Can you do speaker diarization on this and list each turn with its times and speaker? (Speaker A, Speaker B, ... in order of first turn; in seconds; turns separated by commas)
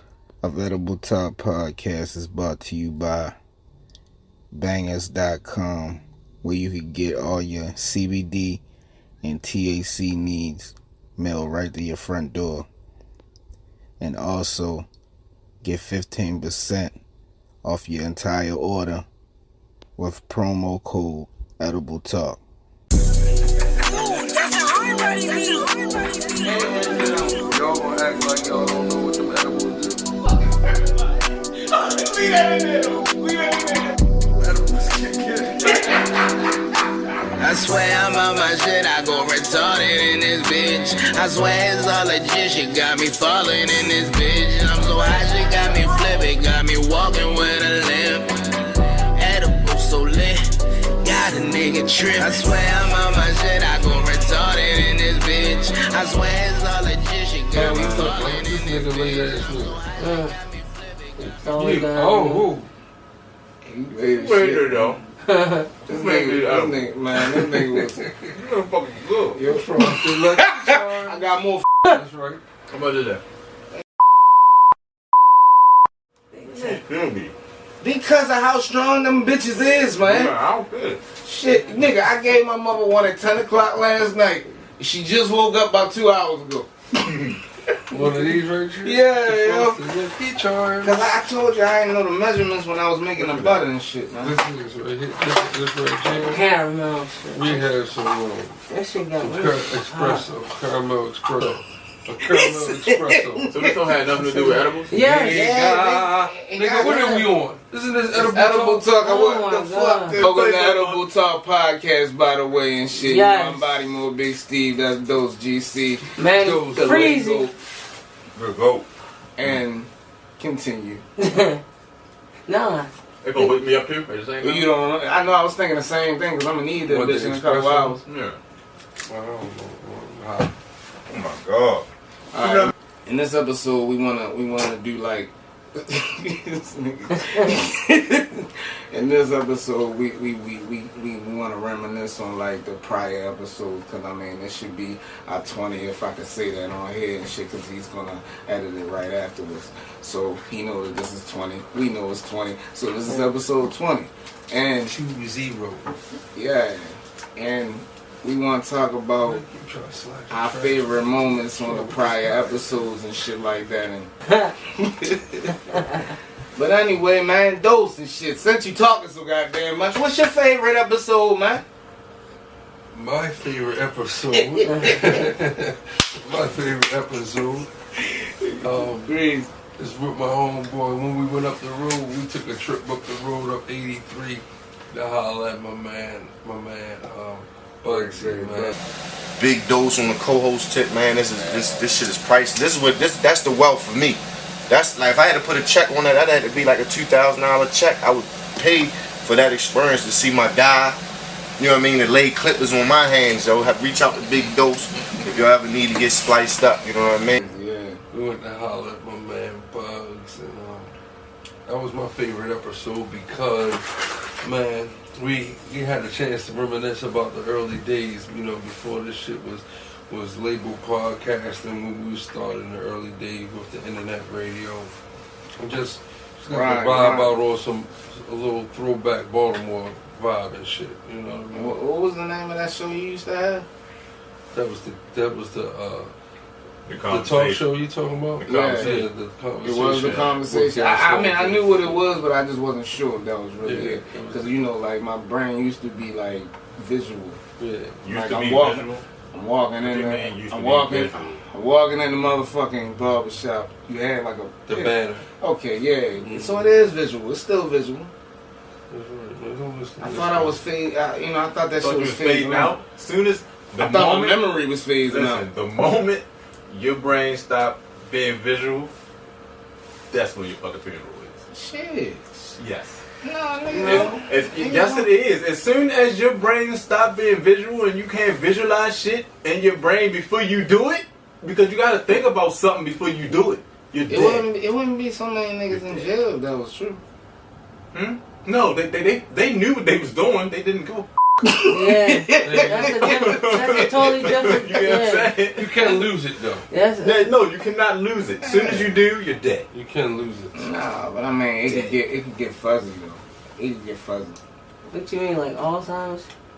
Speaker A: 0.4-3.3, Speaker A: 4.5-8.6, Speaker A: 9.2-12.7, Speaker A: 14.0-14.9, Speaker A: 15.6-17.0, Speaker A: 17.6-19.1, Speaker A: 20.0-22.4, Speaker A: 24.9-25.3, Speaker A: 26.4-27.4, Speaker B: 26.7-30.1, Speaker A: 31.9-33.9, Speaker B: 34.3-35.6, Speaker C: 37.4-48.4, Speaker C: 49.1-50.4, Speaker C: 51.0-61.4, Speaker B: 57.5-59.8, Speaker A: 57.6-58.1, Speaker D: 60.0-60.3, Speaker B: 61.2-62.7, Speaker D: 61.4-62.5, Speaker A: 63.7-65.0, Speaker E: 64.1-65.0, Speaker D: 65.3-65.7, Speaker E: 65.9-66.9, Speaker A: 65.9-68.0, Speaker B: 67.3-68.3, Speaker E: 68.3-69.4, Speaker A: 69.4-71.7, Speaker B: 69.5-71.3, Speaker B: 71.8-72.4, Speaker E: 72.7-73.2, Speaker D: 76.4-76.7, Speaker E: 76.5-77.3, Speaker A: 77.8-80.3, Speaker E: 80.0-81.0, Speaker A: 81.2-86.7, Speaker E: 87.0-87.4, Speaker B: 87.9-91.1, Speaker A: 88.8-89.9, Speaker A: 90.8-94.4, Speaker E: 93.2-93.6, Speaker B: 94.2-96.4, Speaker D: 96.2-97.6, Speaker B: 97.3-98.6, Speaker D: 98.7-100.2, Speaker B: 99.2-103.5, Speaker A: 102.3-103.7, Speaker E: 103.5-104.9, Speaker D: 104.9-105.5, Speaker A: 105.0-107.3, Speaker B: 105.0-108.9, Speaker A: 108.1-117.5, Speaker D: 109.0-110.2, Speaker E: 110.2-111.1, Speaker D: 113.0-113.7, Speaker D: 116.2-117.5, Speaker B: 116.4-117.2, Speaker E: 118.4-118.9, Speaker A: 119.4-121.0, Speaker D: 121.2-121.6, Speaker D: 122.5-122.9, Speaker E: 123.2-124.8, Speaker A: 124.4-128.0, Speaker B: 126.8-128.0, Speaker E: 128.1-128.4, Speaker B: 129.1-130.5, Speaker E: 131.1-131.8, Speaker A: 132.3-155.0, Speaker B: 154.9-155.9, Speaker A: 156.3-159.4, Speaker B: 159.2-162.8, Speaker A: 160.3-164.1, Speaker A: 164.8-165.4, Speaker A: 166.6-171.6, Speaker B: 172.9-177.7, Speaker A: 174.3-175.1, Speaker A: 178.2-179.5, Speaker B: 178.6-179.2, Speaker B: 179.8-188.7, Speaker A: 187.9-188.7, Speaker F: 189.4-201.0, Speaker F: 201.6-207.4, Speaker A: 207.4-208.0, Speaker B: 208.1-210.9, Speaker B: 211.7-224.9, Speaker B: 225.6-231.8, Speaker A: 226.5-227.4, Speaker A: 231.5-233.7, Speaker B: 234.5-236.1, Speaker E: 236.9-237.6, Speaker B: 237.1-242.0, Speaker E: 238.4-239.1, Speaker A: 238.4-239.1, Speaker A: 239.6-247.4, Speaker E: 239.8-240.3, Speaker B: 243.6-244.6, Speaker B: 247.6-248.1, Speaker E: 248.0-249.0, Speaker A: 248.1-258.1, Speaker E: 249.8-251.4, Speaker B: 254.7-255.2, Speaker B: 256.3-256.5, Speaker B: 258.9-260.6, Speaker A: 260.0-262.8, Speaker E: 261.8-268.9, Speaker A: 263.8-265.4, Speaker E: 270.1-271.4, Speaker A: 271.5-272.4, Speaker E: 272.6-273.0, Speaker A: 273.2-275.1, Speaker E: 273.7-284.5, Speaker A: 284.1-287.0, Speaker E: 285.7-286.1, Speaker E: 287.9-291.1, Speaker A: 291.5-293.4, Speaker D: 291.7-295.3, Speaker B: 292.4-293.0, Speaker E: 293.0-295.7, Speaker B: 295.6-296.6, Speaker D: 296.7-297.3, Speaker E: 297.0-299.7, Speaker B: 299.7-300.6, Speaker A: 300.6-304.4, Speaker D: 304.9-306.3